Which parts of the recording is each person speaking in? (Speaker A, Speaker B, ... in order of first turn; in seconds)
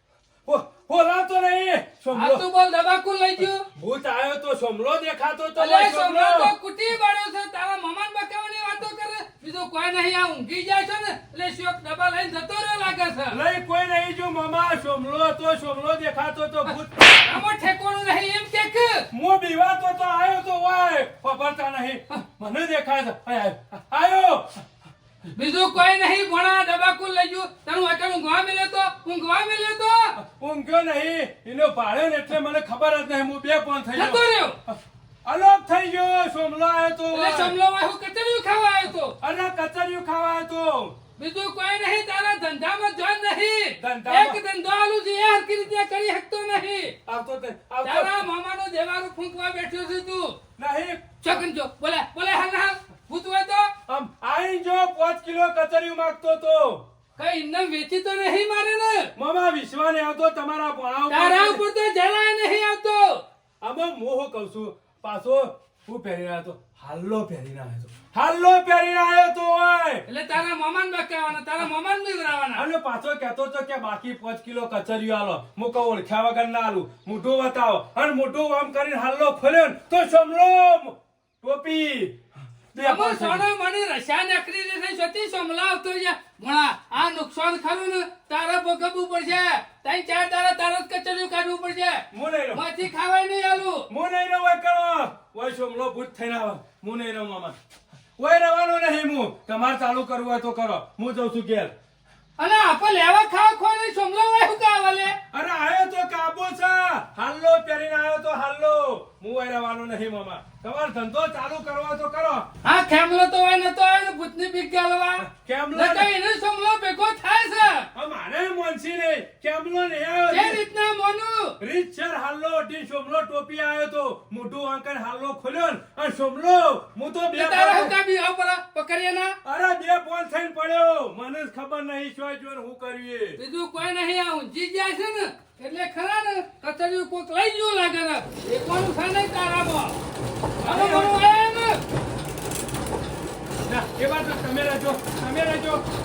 Speaker A: 0.5-2.4, 3.7-6.5, 13.3-17.2, 19.1-24.6, 30.1-37.5, 39.2-41.0, 43.8-44.4, 47.1-48.2, 50.6-51.4, 53.9-56.9, 59.1-61.6, 63.6-70.0, 72.5-83.4, 92.1-92.6, 93.9-97.6, 98.2-101.7, 105.3-112.5, 115.2-116.1, 117.9-120.6, 121.6-127.9, 129.4-133.4, 140.6-141.2, 143.7-145.8
Speaker B: 2.1-3.7, 5.6-13.4, 16.7-19.1, 25.3-30.1, 33.9-34.6, 37.1-39.1, 41.2-47.0, 47.8-50.4, 51.2-53.7, 57.2-59.1, 61.1-63.2, 70.1-72.6, 82.8-93.9, 102.4-105.2, 112.6-117.9, 120.3-121.5, 127.3-129.3, 133.4-140.0, 140.6-141.8